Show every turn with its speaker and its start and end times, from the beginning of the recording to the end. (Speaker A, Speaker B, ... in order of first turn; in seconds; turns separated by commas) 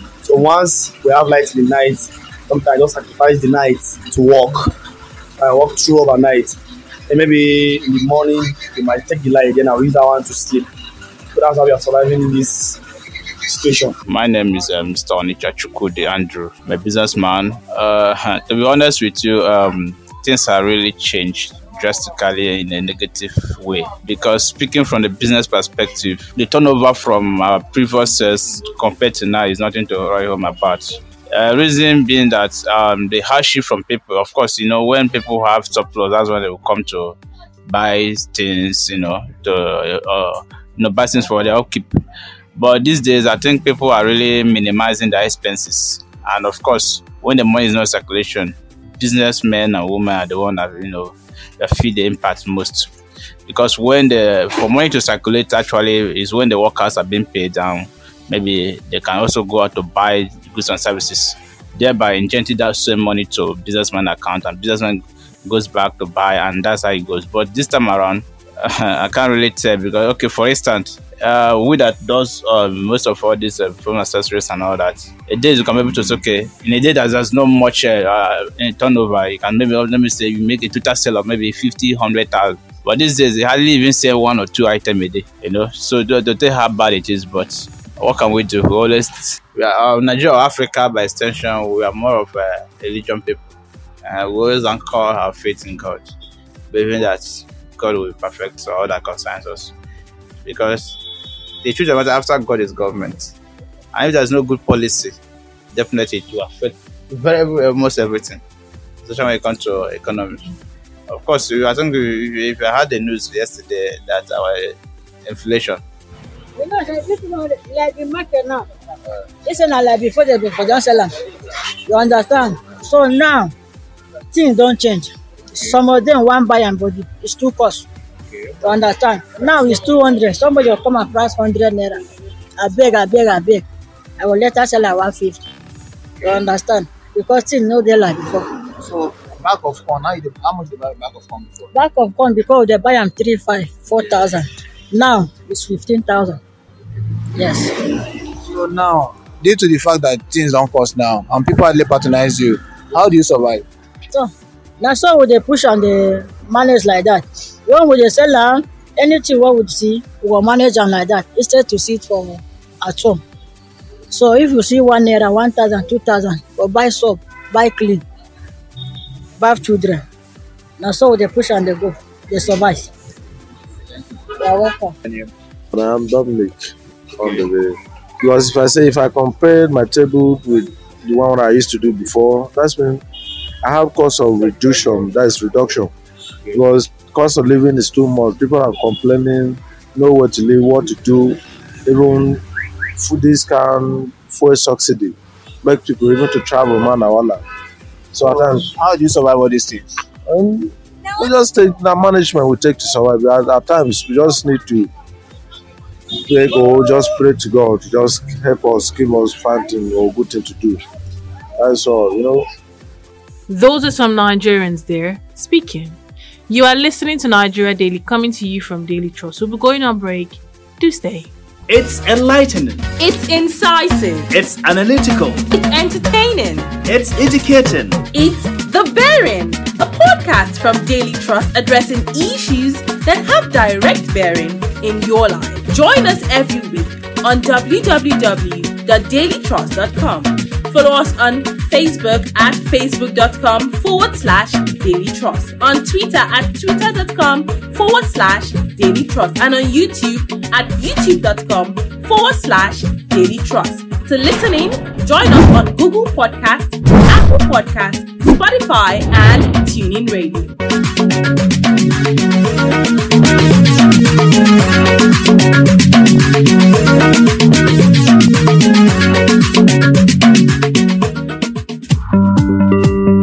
Speaker A: 0.2-4.6, Speaker A: 5.4-6.5, Speaker A: 7.1-10.7, Speaker A: 11.4-12.8, Speaker A: 13.5-13.9, Speaker B: 14.1-41.9, Speaker B: 42.6-52.9, Speaker B: 53.5-93.4, Speaker B: 94.0-96.1, Speaker B: 96.7-99.7, Speaker B: 100.4-101.0, Speaker B: 101.6-103.3, Speaker B: 103.9-105.2, Speaker B: 105.7-108.4, Speaker B: 109.0-110.4, Speaker B: 111.1-115.8, Speaker C: 116.6-118.7, Speaker C: 119.5-121.1, Speaker C: 121.9-123.5, Speaker C: 124.3-127.9, Speaker C: 128.6-132.0, Speaker C: 132.6-133.7, Speaker C: 134.2-135.4, Speaker C: 136.2-138.5, Speaker D: 138.8-141.7, Speaker C: 141.7-146.4, Speaker C: 147.4-147.7, Speaker D: 148.5-153.6, Speaker C: 154.1-163.2, Speaker C: 164.1-168.0, Speaker C: 169.4-170.0, Speaker C: 170.8-172.9, Speaker C: 174.4-174.9, Speaker E: 175.7-183.0, Speaker E: 183.6-185.9, Speaker E: 186.5-192.4, Speaker E: 193.0-197.4, Speaker E: 198.1-198.7, Speaker D: 198.2-200.0, Speaker E: 200.3-204.9, Speaker E: 206.3-210.8, Speaker E: 211.6-212.5, Speaker F: 213.5-221.3, Speaker G: 221.7-222.8, Speaker H: 223.0-224.3, Speaker G: 224.3-225.4, Speaker H: 225.5-226.7, Speaker G: 226.9-228.0, Speaker H: 228.1-260.5